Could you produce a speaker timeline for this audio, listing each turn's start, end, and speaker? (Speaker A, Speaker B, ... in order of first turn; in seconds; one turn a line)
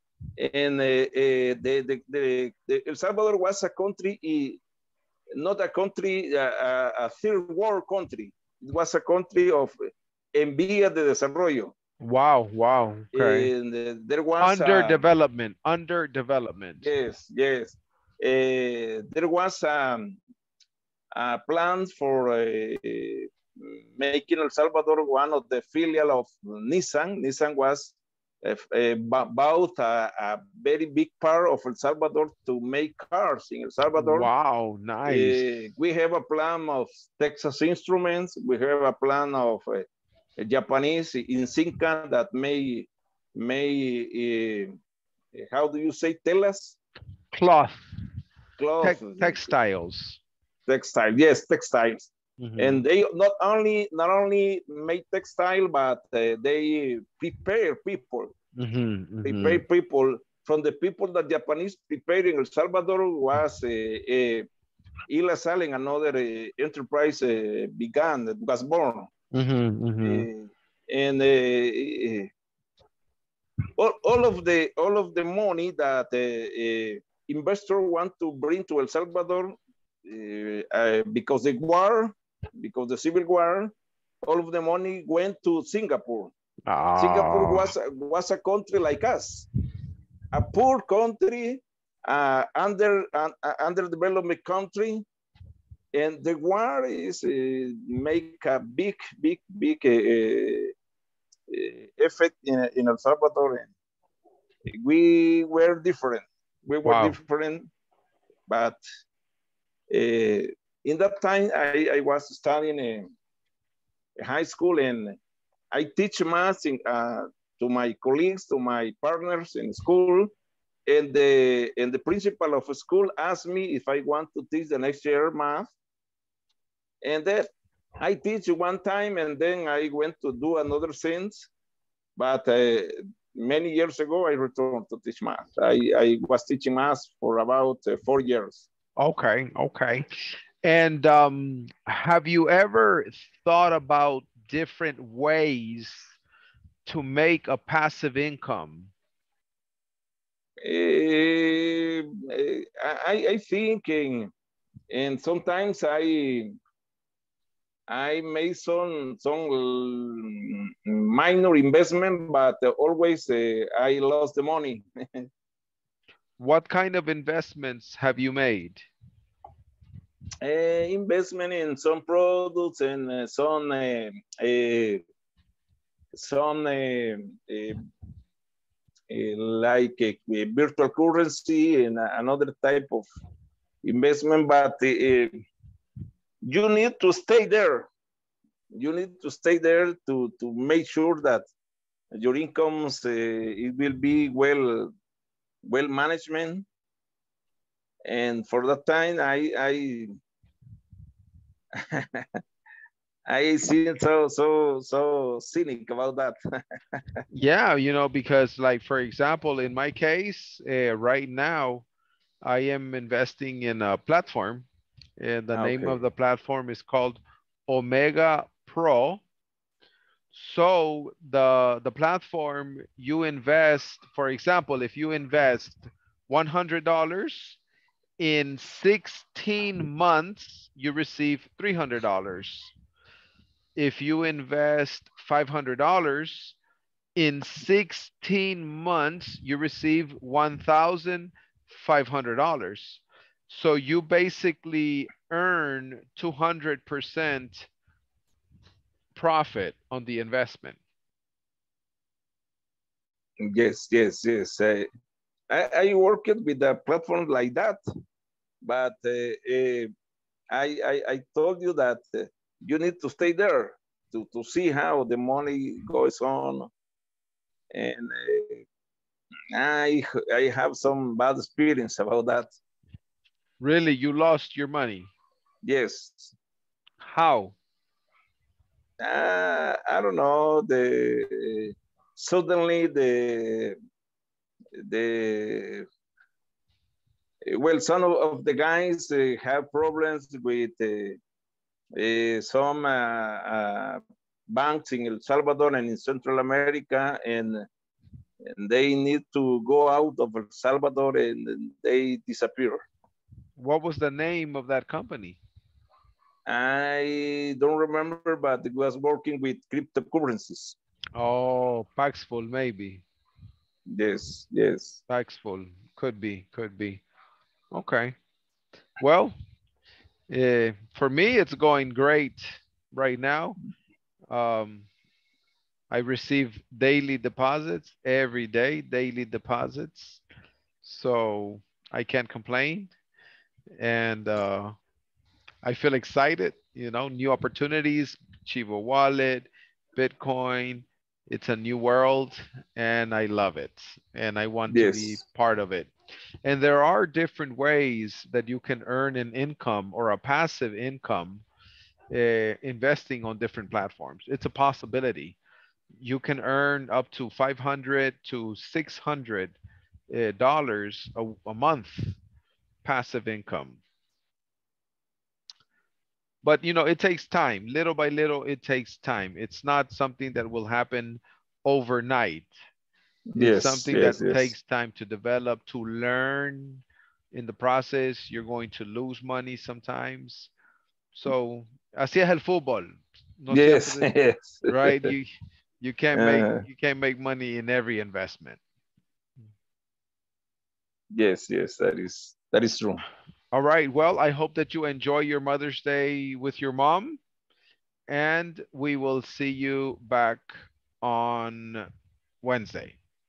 Speaker A: 0.4-4.6
Speaker A: 5.4-9.7
Speaker A: 10.3-11.7
Speaker B: 12.0-13.5
Speaker A: 13.1-15.1
Speaker B: 14.4-16.9
Speaker A: 16.8-20.2
Speaker A: 21.1-34.3
Speaker B: 34.0-35.4
Speaker A: 35.1-39.9
Speaker A: 40.4-44.8
Speaker A: 45.3-46.8
Speaker B: 47.3-47.9
Speaker A: 48.6-49.5
Speaker B: 48.8-50.2
Speaker A: 50.7-58.3
Speaker B: 52.4-52.8
Speaker B: 58.6-59.6
Speaker A: 59.2-64.5
Speaker A: 65.1-69.1
Speaker B: 69.3-70.3
Speaker A: 70.0-72.3
Speaker A: 73.8-86.3
Speaker B: 86.7-87.7
Speaker A: 87.0-89.5
Speaker A: 90.3-95.0
Speaker A: 96.0-100.7
Speaker A: 101.5-103.7
Speaker A: 104.7-107.7
Speaker B: 106.8-107.2
Speaker A: 108.5-108.8
Speaker A: 109.9-113.1
Speaker A: 114.2-115.2
Speaker A: 115.7-120.3
Speaker A: 120.9-125.7
Speaker A: 127.0-131.5
Speaker A: 132.2-138.7
Speaker B: 139.0-140.1
Speaker B: 140.6-146.1
Speaker B: 146.9-148.9
Speaker A: 150.6-154.3
Speaker A: 154.9-156.6
Speaker A: 157.9-165.3
Speaker B: 166.4-168.9
Speaker A: 170.4-175.0
Speaker A: 176.1-177.8
Speaker A: 179.1-183.1
Speaker A: 183.8-185.4
Speaker A: 186.4-187.9
Speaker A: 188.8-191.5
Speaker A: 192.1-194.9
Speaker A: 195.7-196.7
Speaker A: 198.1-200.1
Speaker A: 201.8-202.3
Speaker A: 203.3-206.4
Speaker B: 207.3-211.9
Speaker B: 212.4-214.7
Speaker B: 215.2-219.2
Speaker A: 215.5-216.0
Speaker B: 220.3-227.6
Speaker B: 228.2-232.7
Speaker B: 233.8-236.6
Speaker B: 237.2-247.7
Speaker B: 249.2-250.8
Speaker A: 253.4-254.9
Speaker A: 255.5-257.8
Speaker A: 258.6-259.9
Speaker A: 260.5-266.7
Speaker A: 267.7-268.6
Speaker A: 269.6-272.5
Speaker B: 273.6-275.1
Speaker A: 275.6-276.3
Speaker B: 277.0-277.6
Speaker A: 279.0-283.8
Speaker A: 284.8-285.9
Speaker A: 287.5-291.2
Speaker A: 292.0-294.0
Speaker A: 294.5-297.6
Speaker A: 298.5-302.8
Speaker B: 303.6-305.4
Speaker A: 306.5-310.8
Speaker B: 311.2-313.0
Speaker A: 313.9-315.0
Speaker B: 315.1-317.0
Speaker B: 317.7-318.1
Speaker B: 319.0-319.4
Speaker B: 320.3-323.6
Speaker B: 324.3-324.9
Speaker B: 325.9-330.2
Speaker B: 330.8-332.9
Speaker B: 333.8-334.8
Speaker B: 335.6-345.9
Speaker A: 344.7-345.2
Speaker B: 346.4-351.4
Speaker B: 352.1-355.4
Speaker B: 356.0-359.6
Speaker B: 360.1-362.2
Speaker B: 362.8-363.8
Speaker B: 366.4-372.5
Speaker A: 373.4-374.5
Speaker B: 373.4-380.5
Speaker B: 381.1-384.1
Speaker A: 383.5-385.1
Speaker B: 384.7-388.6
Speaker A: 386.2-386.6
Speaker A: 391.1-393.0
Speaker B: 393.5-397.2
Speaker B: 398.1-401.9
Speaker B: 402.4-403.0